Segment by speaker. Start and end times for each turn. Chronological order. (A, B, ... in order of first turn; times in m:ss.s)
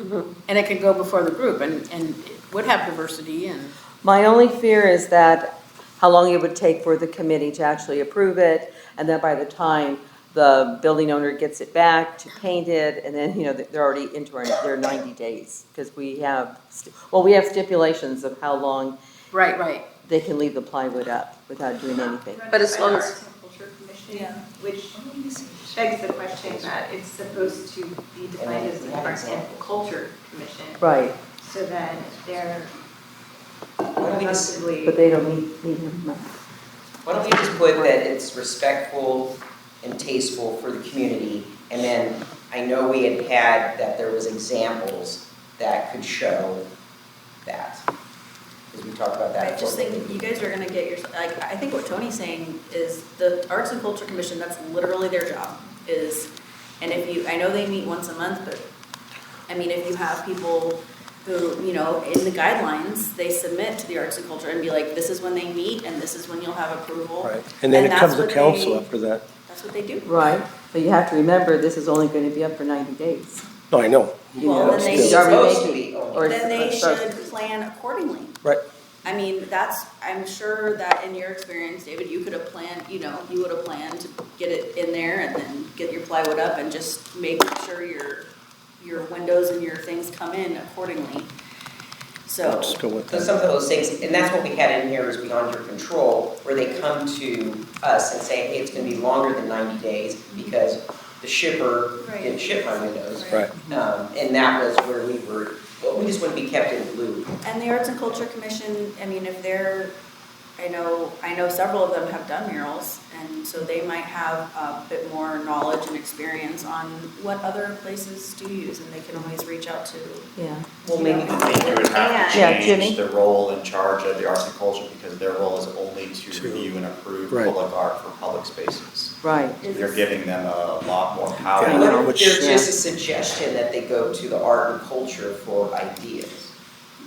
0:00.4-0:03.7 A
0:04.0-0:19.0 B
0:19.3-0:19.8 A
0:20.0-0:22.6 B
0:22.3-0:25.1 C
0:22.5-0:23.1 A
0:24.1-0:24.4 D
0:25.0-0:26.8 E
0:25.6-0:32.7 C
0:28.4-0:29.8 E
0:30.8-0:31.2 B
0:34.0-0:34.6 E
0:34.0-0:34.9 C
0:34.8-0:36.3 B
0:37.0-0:46.7 E
0:37.2-0:38.0 B
0:47.4-0:47.8 E
0:48.7-0:50.5 E
0:49.4-0:58.6 D
0:59.5-1:08.9 D
1:07.2-1:09.2 F
1:09.4-1:10.2 D
1:10.0-1:13.4 B
1:13.7-1:15.2 F
1:14.4-1:18.4 D
1:14.4-1:17.1 B
1:14.8-1:16.3 E
1:19.0-1:28.3 D
1:28.8-1:31.3 D
1:32.2-1:32.8 D
1:32.4-1:33.4 F
1:33.1-1:47.3 E
1:42.0-1:43.5 D
1:47.4-1:49.9 D
1:50.6-2:00.3 D
2:00.4-2:00.7 B
2:00.8-2:01.4 E
2:00.8-2:02.2 D
2:01.2-2:11.9 G
2:02.3-2:03.0 B
2:06.3-2:06.7 F
2:07.3-2:07.5 F
2:09.2-2:09.6 B
2:09.6-2:10.1 D
2:11.5-2:12.6 F
2:11.7-2:16.5 E
2:11.7-2:12.7 B